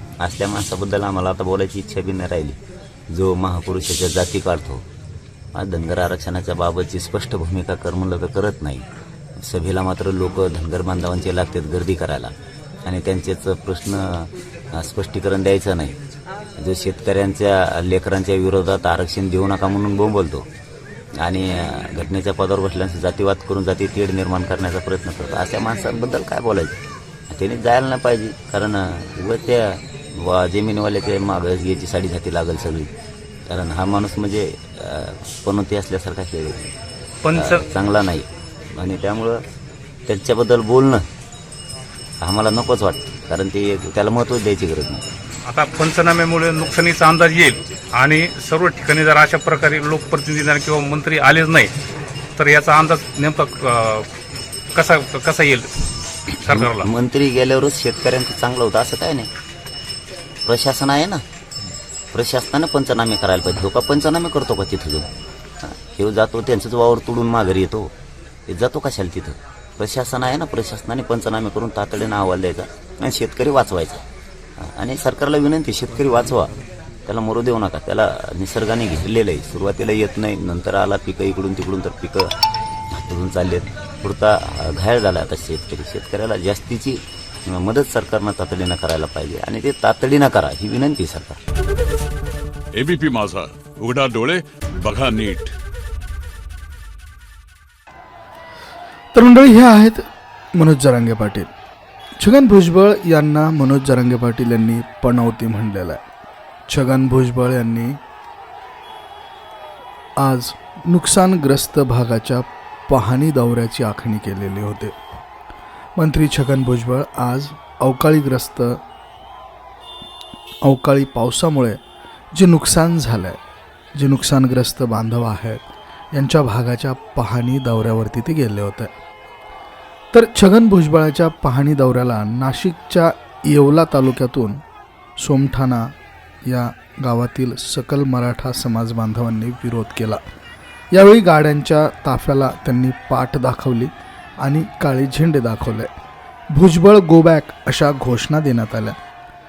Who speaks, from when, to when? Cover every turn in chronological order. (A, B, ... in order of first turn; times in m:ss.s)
0:00.2-0:02.6 A
0:03.1-0:04.8 A
0:05.6-0:08.9 A
0:09.4-0:12.3 A
0:12.8-0:16.0 A
0:16.6-0:20.5 A
0:21.2-0:32.9 A
0:33.5-0:36.8 A
0:37.2-0:37.6 B
0:37.4-0:39.4 A
0:40.1-0:41.0 A
0:42.2-0:45.1 A
0:45.5-0:51.7 B
0:52.4-0:54.1 B
0:54.8-0:55.7 B
0:56.3-0:59.3 A
0:56.4-0:56.9 B
1:00.5-1:01.2 A
1:02.1-1:05.1 A
1:05.6-1:07.9 A
1:08.5-1:14.0 A
1:14.6-1:16.5 A
1:17.1-1:22.3 A
1:22.9-1:31.4 A
1:32.7-1:35.5 C
1:39.1-1:40.0 D
1:40.6-1:41.5 D
1:42.2-1:46.0 D
1:46.7-1:48.0 D
1:50.2-1:55.0 D
1:56.0-1:58.8 D
2:00.6-2:01.8 D
2:02.3-2:03.4 D
2:04.0-2:08.9 D
2:10.1-2:14.6 D
2:15.2-2:15.9 D
2:16.4-2:20.2 D
2:20.9-2:23.9 D
2:24.4-2:25.9 D
2:26.5-2:29.0 D